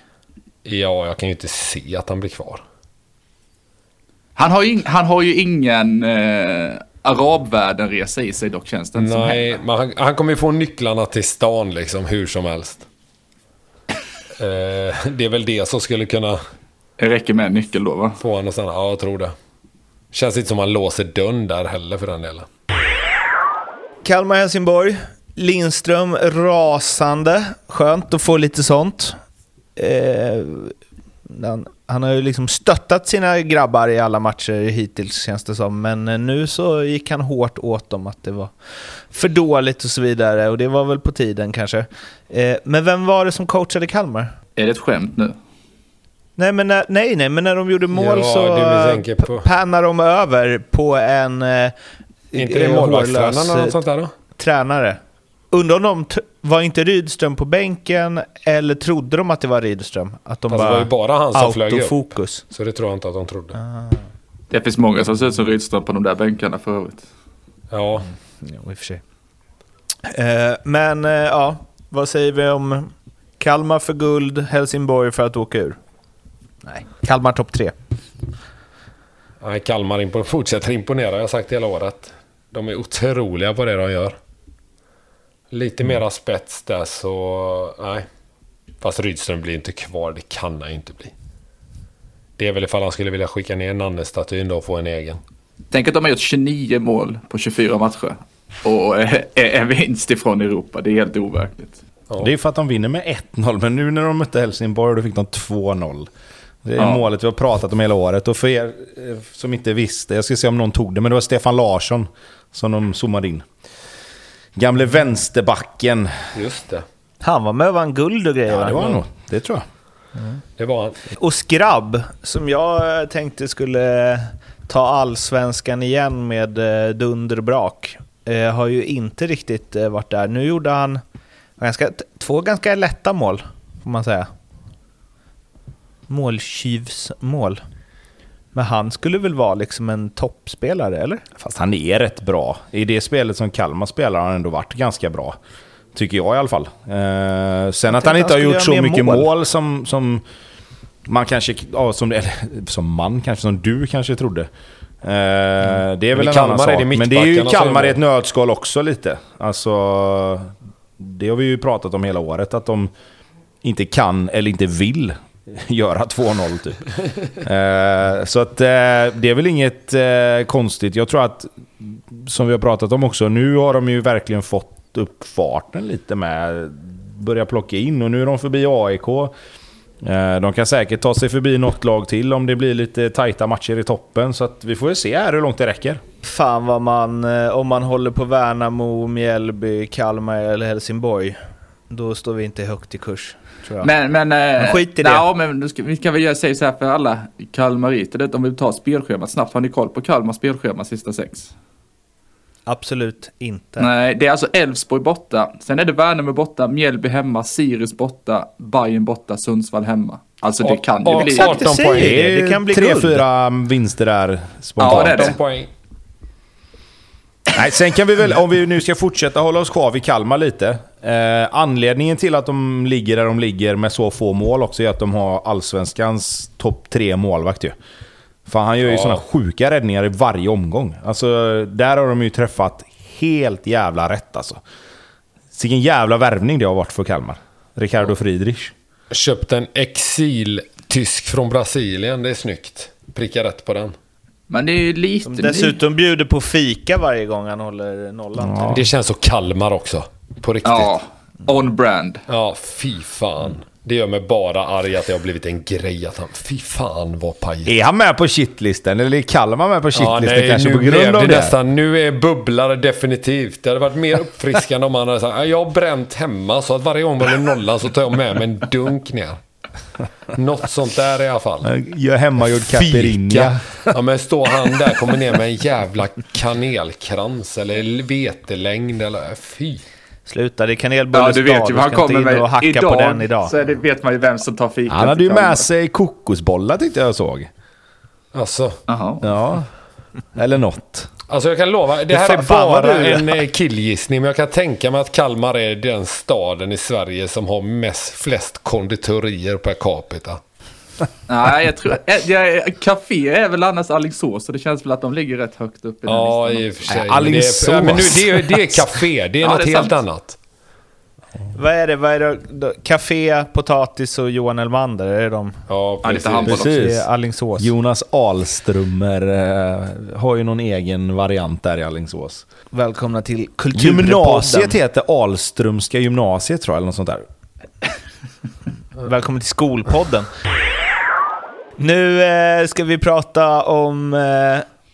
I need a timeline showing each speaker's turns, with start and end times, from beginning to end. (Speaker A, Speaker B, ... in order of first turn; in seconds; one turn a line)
Speaker A: 0.7-2.6
Speaker B: 4.4-9.6
Speaker A: 9.0-12.8
Speaker A: 14.4-16.4
Speaker B: 17.0-18.2
Speaker A: 18.2-19.3
Speaker A: 20.1-22.5
Speaker C: 24.0-29.2
Speaker C: 29.8-30.8
Speaker C: 31.3-38.5
Speaker C: 39.1-44.3
Speaker B: 44.6-45.4
Speaker C: 46.4-51.7
Speaker A: 47.9-49.5
Speaker C: 52.3-53.8
Speaker A: 52.3-54.1
Speaker C: 54.4-55.0
Speaker C: 55.5-62.5
Speaker A: 60.5-63.6
Speaker C: 63.5-64.0
Speaker B: 64.5-67.0
Speaker A: 67.7-68.1
Speaker C: 68.4-69.0
Speaker C: 70.0-75.8
Speaker C: 76.7-77.8
Speaker A: 79.4-84.2
Speaker A: 85.5-88.1
Speaker A: 88.8-91.1
Speaker A: 92.4-95.2
Speaker B: 95.7-101.8
Speaker D: 102.2-106.1
Speaker D: 106.7-113.5
Speaker D: 114.6-116.3
Speaker A: 116.3-116.9
Speaker C: 117.2-119.0
Speaker D: 118.5-119.7
Speaker A: 120.6-121.0
Speaker C: 121.1-131.0
Speaker C: 131.6-134.3
Speaker C: 136.1-137.6
Speaker C: 138.5-141.2
Speaker D: 141.4-145.4
Speaker D: 145.9-150.2
Speaker C: 147.9-149.3
Speaker D: 151.1-154.5
Speaker D: 155.0-162.9
Speaker A: 156.2-158.0
Speaker D: 163.6-166.8
Speaker D: 167.4-179.3
Speaker D: 180.0-186.0
Speaker C: 186.2-191.4
Speaker C: 191.9-193.9
Speaker B: 193.8-201.5
Speaker C: 194.6-195.2
Speaker C: 202.7-203.9
Speaker B: 203.8-211.6
Speaker A: 210.6-212.2
Speaker C: 211.2-213.2
Speaker D: 211.8-215.4
Speaker B: 214.8-215.4
Speaker A: 214.8-215.7
Speaker D: 217.5-227.8
Speaker D: 228.5-234.6
Speaker A: 228.9-229.2
Speaker D: 235.5-238.7
Speaker A: 239.1-244.0
Speaker B: 244.5-245.8
Speaker C: 245.2-248.8
Speaker D: 248.4-248.8
Speaker A: 248.7-250.9
Speaker B: 250.6-252.2
Speaker A: 252.3-257.7
Speaker D: 257.6-261.6
Speaker A: 259.9-269.4
Speaker A: 270.3-271.7
Speaker D: 271.6-273.9
Speaker A: 272.5-279.8
Speaker C: 280.3-283.5
Speaker B: 281.1-285.7
Speaker D: 284.9-287.5
Speaker A: 288.3-288.8
Speaker B: 288.9-289.4
Speaker D: 289.2-289.7
Speaker D: 290.4-291.1
Speaker A: 291.3-300.4
Speaker C: 292.1-293.4
Speaker B: 301.3-307.1
Speaker A: 306.1-310.4
Speaker D: 306.9-308.9
Speaker B: 309.4-310.0
Speaker C: 311.5-315.6
Speaker A: 315.7-316.6
Speaker B: 316.0-316.7
Speaker D: 316.5-317.1
Speaker C: 316.5-317.7
Speaker D: 317.6-322.4
Speaker C: 322.7-324.8
Speaker D: 323.7-327.2
Speaker C: 329.0-330.3
Speaker C: 331.8-334.7